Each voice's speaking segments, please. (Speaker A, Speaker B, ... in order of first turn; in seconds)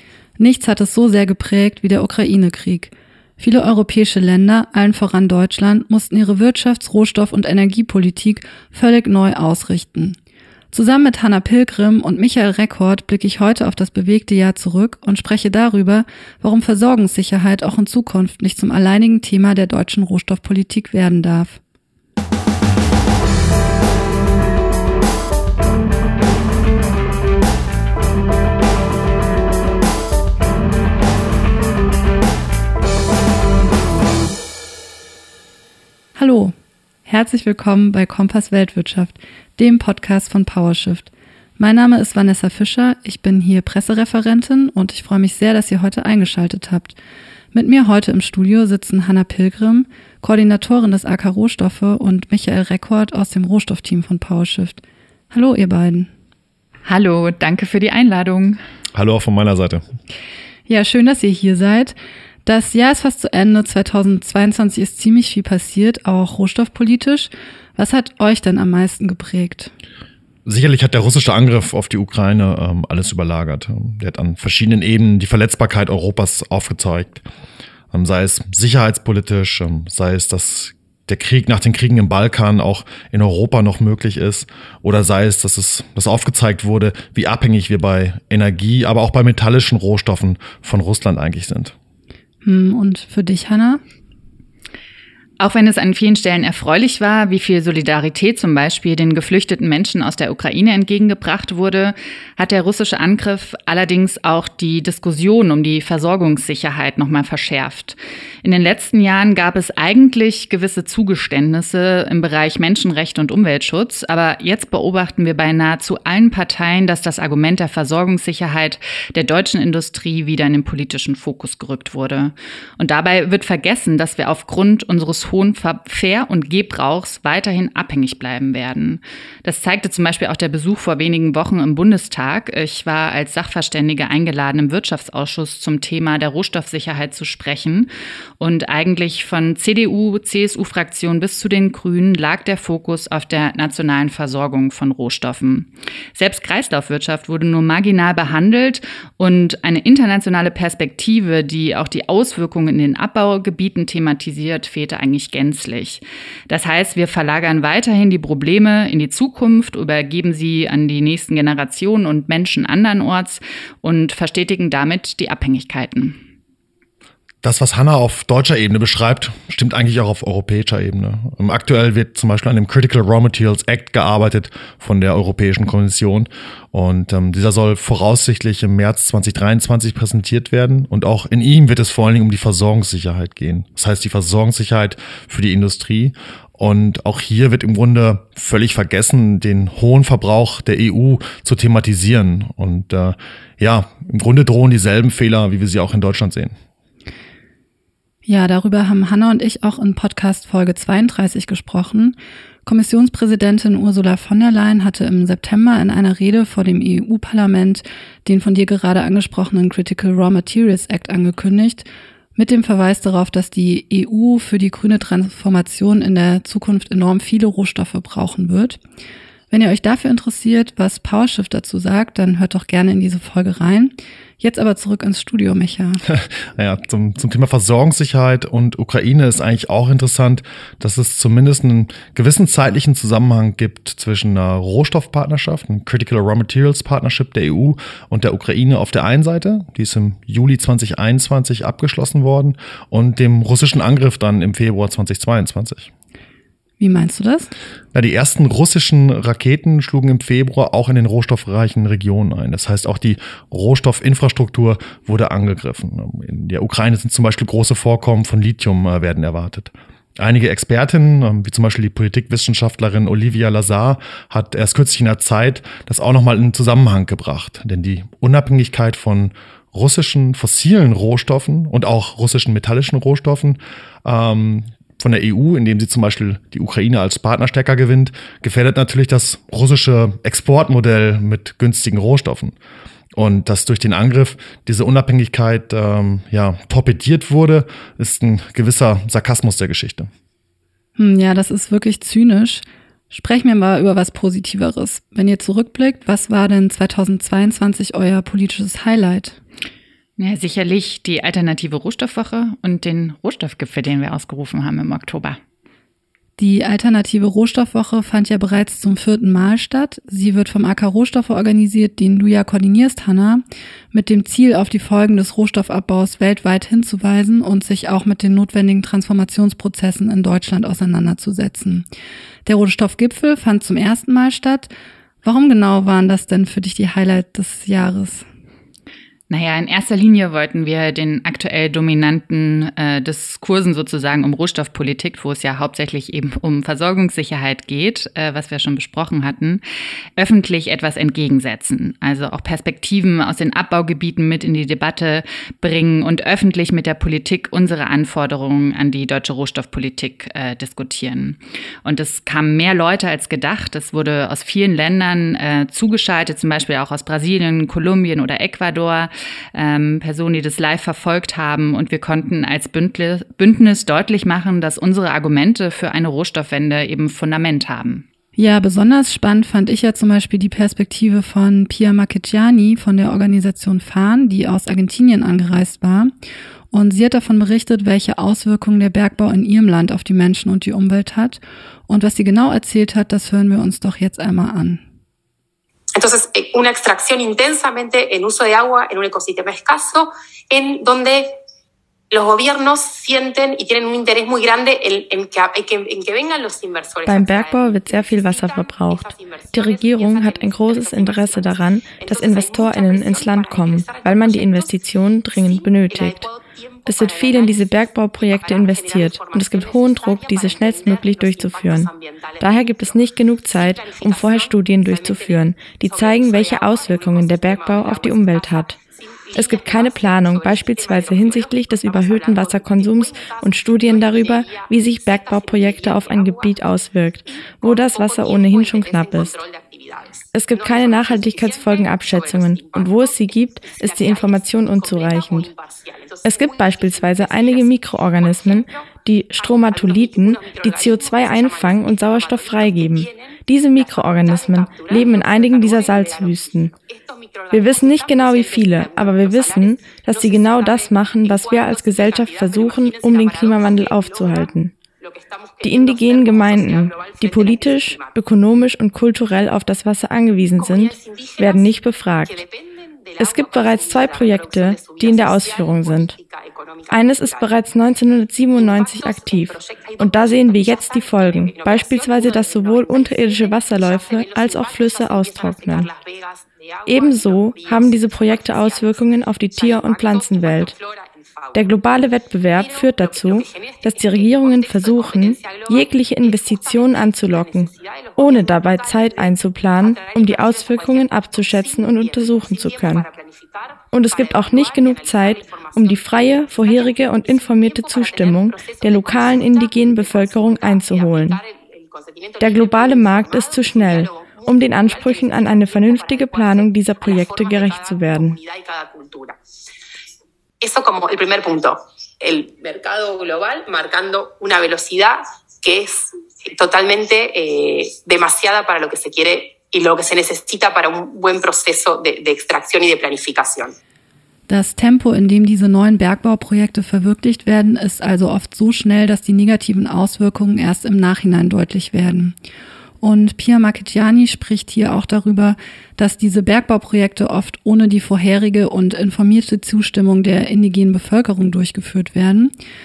Speaker A: 0.4-10.2, 10.7-21.6, 36.2-36.5, 37.1-47.0, 47.5-56.1, 60.7-69.7, 92.4-93.8, 198.2-218.8, 219.5-226.0, 246.8-247.5, 291.0-299.4, 306.4-321.9, 322.4-324.7, 325.2-328.2, 368.4-376.1, 376.7-384.8, 524.5-532.4, 533.0-542.5
Speaker B: 56.9-58.6, 95.4-166.2, 300.2-305.4, 329.3-339.6, 340.2-368.1
Speaker C: 58.9-59.9, 70.5-77.2, 77.9-91.8, 167.4-196.6, 226.1-245.9, 247.9-282.6, 283.1-290.1
Speaker D: 386.0-391.3, 392.1-404.8, 405.4-426.6, 427.3-438.9, 439.4-458.2, 460.6-467.7, 468.5-481.6, 482.5-509.4, 510.6-523.8
Speaker E: 397.1-406.3, 406.9-418.8, 419.3-429.4, 430.3-435.5, 436.2-446.7, 447.5-454.7, 455.6-462.4, 463.2-466.1, 466.9-475.9, 476.9-480.7, 481.5-493.1, 493.9-501.4, 502.4-508.4